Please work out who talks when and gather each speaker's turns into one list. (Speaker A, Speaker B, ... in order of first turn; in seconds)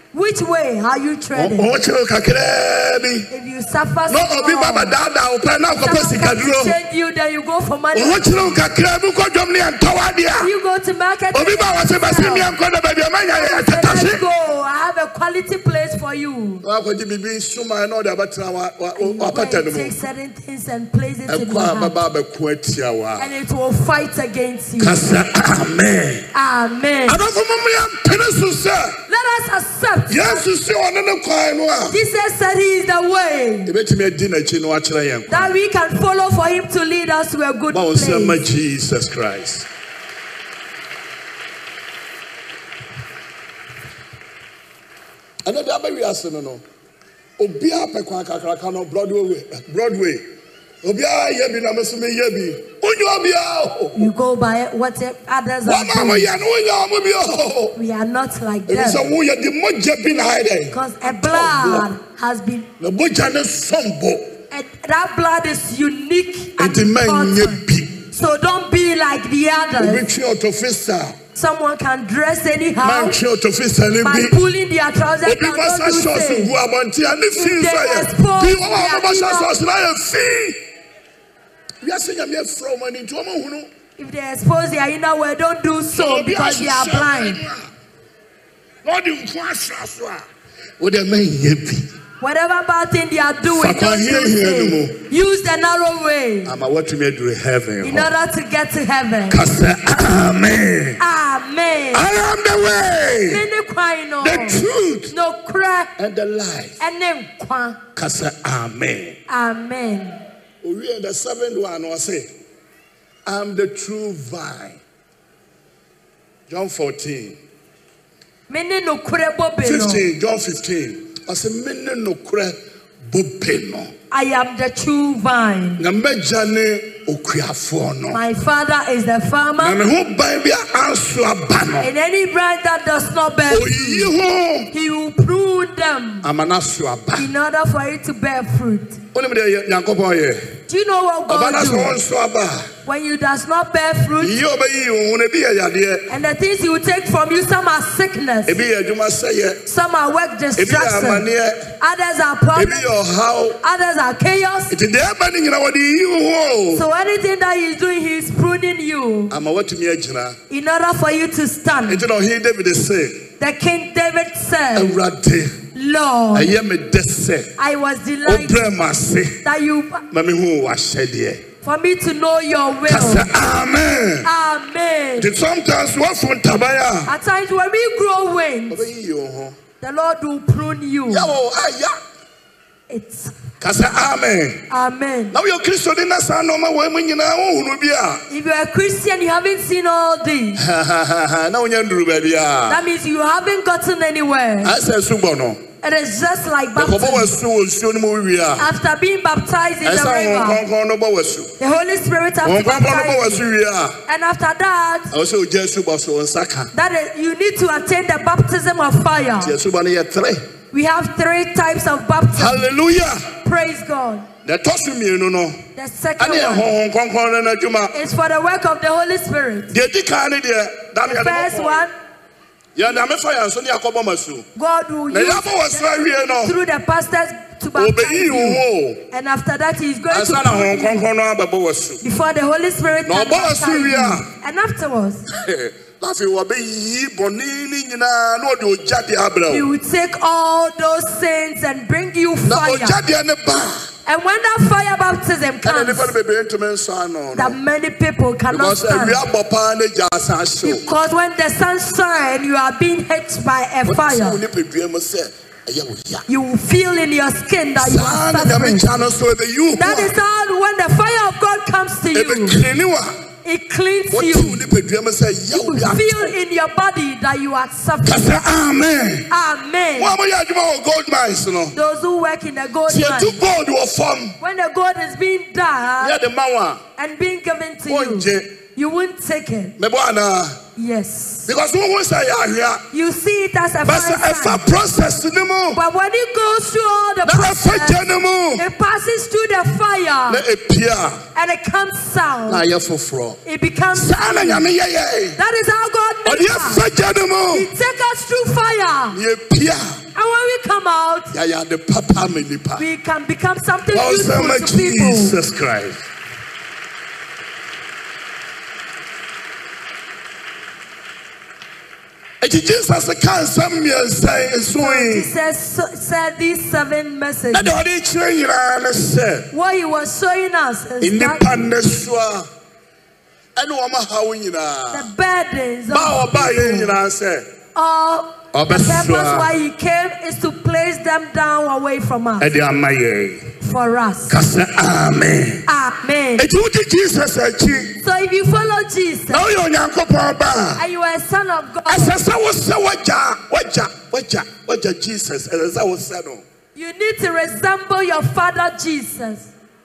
Speaker A: 0.1-1.7, 3.3-5.0, 5.8-8.6, 10.4-12.5, 13.3-16.6, 19.0-21.9, 23.2-25.0, 26.3-27.2, 29.1-30.4, 31.9-33.7, 35.3-38.4, 54.0-56.3, 57.8-59.0, 60.7-62.7, 64.5-70.0, 71.3-73.2, 74.0-76.5, 77.3-79.5, 84.0-87.4, 92.2-96.5, 97.8-99.4, 101.0-102.1, 103.3-105.9, 106.8-107.8, 109.3-110.2, 118.5-120.1, 124.1-125.8, 128.1-129.8, 131.8-134.1, 134.7-136.3, 137.2-139.0, 140.7-141.9, 142.8-144.4, 146.1-148.6, 149.7-151.2, 151.8-152.9, 153.6-154.7, 156.7-159.3, 160.5-162.0, 163.4-164.9, 165.7-166.5, 167.6-168.7, 169.4-170.0, 171.6-173.3, 174.2-175.3, 177.1-178.8, 179.8-181.3, 182.9-183.3, 184.7-185.3, 188.3-190.6, 192.7-194.7, 195.8-197.3, 198.6-200.6, 201.6-203.4, 204.1-205.1, 206.7-209.5, 210.7-212.7, 213.4-214.3, 215.8-216.7, 217.9-219.7, 221.0-221.9, 224.6-231.0, 232.0-235.2, 239.5-243.0, 244.1-246.1, 247.3-249.2, 250.6-254.4, 256.3-258.9, 259.8-262.6, 263.4-264.6, 265.5-268.4, 269.3-270.1, 271.7-273.4, 274.4-276.1, 277.0-279.8, 280.8-281.5, 282.9-284.6, 285.8-290.4, 291.3-292.6, 293.4-294.7, 295.4-296.9, 297.5-299.2, 300.1-301.3, 302.8-305.4, 314.8-317.7, 319.5-321.5, 324.9-327.0, 327.7-332.5, 333.6-334.4, 335.7-336.4, 338.0-339.4, 340.8-342.1, 346.7-349.5
Speaker B: 1.3-3.3, 4.1-6.8, 7.9-10.5, 11.3-14.2, 16.6-19.9, 21.3-23.3, 24.8-26.3, 27.1-29.0, 30.1-31.9, 33.6-35.5, 37.7-39.7, 45.5-46.6, 47.4-50.2, 50.8-54.1, 55.6-57.8, 58.7-61.9, 62.8-64.3, 66.6-68.0, 69.8-71.2, 72.8-74.4, 75.2-80.6, 81.8-83.7, 85.9-87.7, 88.8-90.2, 90.8-91.9, 93.5-95.0, 96.5-98.1, 99.3-101.0, 101.9-103.4, 104.2-105.1, 106.0-106.8, 108.0-109.2, 110.6-112.3, 113.2-114.8, 116.5-117.4, 119.6-122.6, 123.1-123.9, 125.8-128.2, 129.6-131.9, 133.5-134.7, 136.2-137.3, 139.1-140.5, 141.3-142.7, 144.2-146.1, 148.4-149.6, 150.6-151.7, 152.5-153.6, 154.7-156.8, 159.3-160.4, 161.9-163.3, 164.7-165.6, 166.3-167.5, 168.2-169.4, 170.1-171.4, 172.9-174.3, 175.2-177.1, 178.7-179.6, 181.1-182.0, 183.6-184.6, 185.3-188.2, 190.6-192.8, 194.6-195.6, 196.8-198.7, 199.8-201.5, 202.4-204.0, 205.1-206.7, 209.4-210.4, 212.3-213.3, 214.4-215.6, 216.2-217.9, 219.7-221.8, 222.7-224.4, 225.1-226.6, 227.8-229.0, 230.1-232.0, 233.1-234.3, 235.3-239.7, 242.4-243.9, 245.6-247.6, 248.5-250.9, 253.8-256.2, 257.8-260.1, 262.1-263.2, 264.1-266.3, 268.0-269.3, 270.0-271.8, 272.9-274.3, 276.0-276.8, 277.9-278.5, 279.8-280.6, 281.4-282.8, 283.9-285.8, 287.2-288.6, 290.3-291.2, 292.5-293.4, 293.9-295.4, 296.2-297.7, 299.1-300.0, 301.3-302.8, 303.9-306.1, 312.4-315.3, 317.5-319.5, 321.0-322.5, 323.6-325.1, 325.9-327.5, 328.5-329.5, 332.4-333.5, 334.3-335.6, 336.4-338.0, 339.3-340.8, 341.9-346.4